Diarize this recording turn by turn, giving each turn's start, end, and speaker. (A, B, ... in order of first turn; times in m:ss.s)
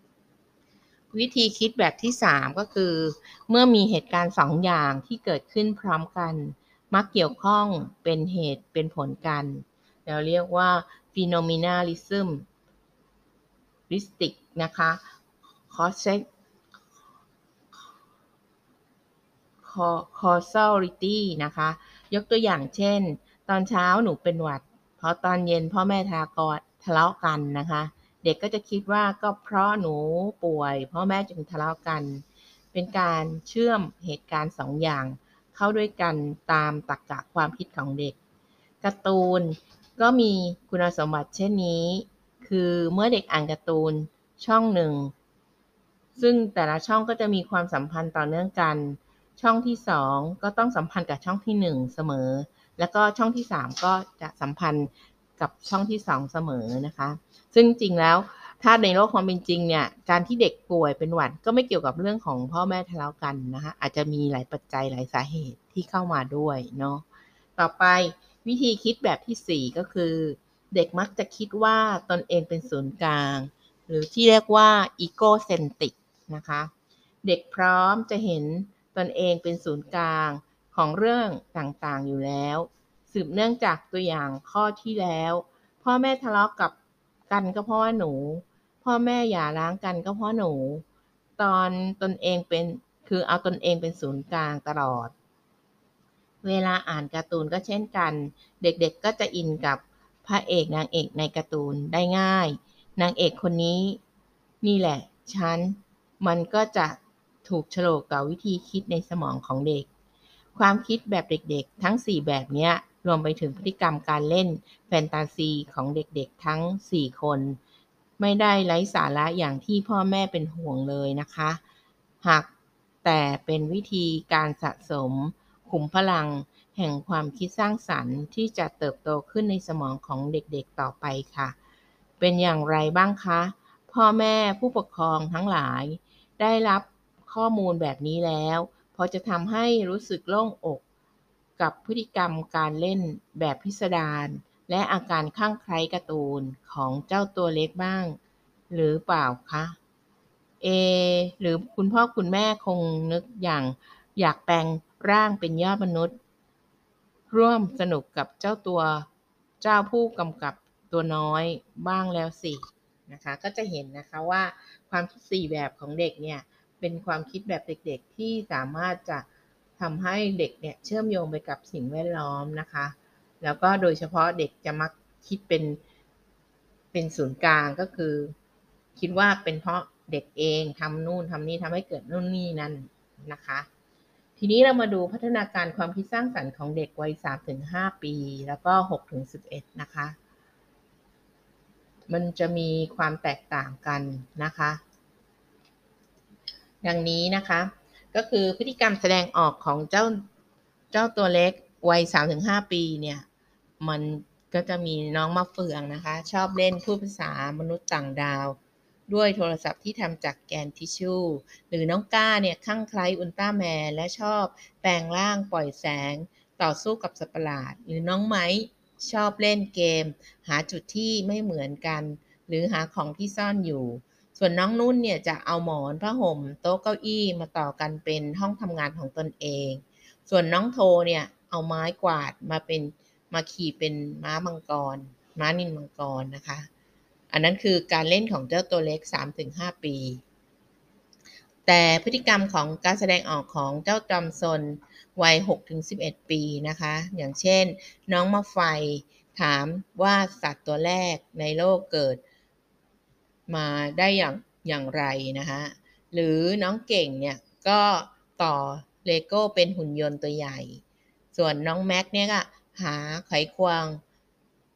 0:01.1-0:12.4 A
0:13.9-0:15.0 A
0:15.7-0:16.3 A
0:19.6-0:38.2 A
0:38.8-0:45.1 A
0:46.2-1:07.0 A
1:07.6-1:16.7 A
1:17.2-1:26.8 A
1:27.3-1:30.8 A
1:31.4-1:35.1 A
1:36.4-1:44.0 A
1:44.6-1:49.9 A
1:50.6-1:57.6 A
1:58.2-2:01.6 A
2:02.2-2:02.5 A
2:03.0-2:11.6 A
2:12.2-2:20.8 A
2:21.6-2:28.2 A
2:28.7-2:29.8 A
2:30.6-2:36.2 A
2:37.3-2:39.1 A
2:39.6-2:49.3 A
2:49.8-2:55.8 A
2:56.9-2:58.3 A
2:59.0-3:03.7 A
3:04.4-3:10.2 A
3:12.1-3:14.8 A
3:16.8-3:20.2 A
3:20.9-3:23.2 A
3:23.8-3:28.6 A
3:29.1-3:56.7 A
3:57.3-4:00.2 A
4:01.7-4:12.2 A
4:13.5-4:20.8 A
4:21.3-4:24.0 A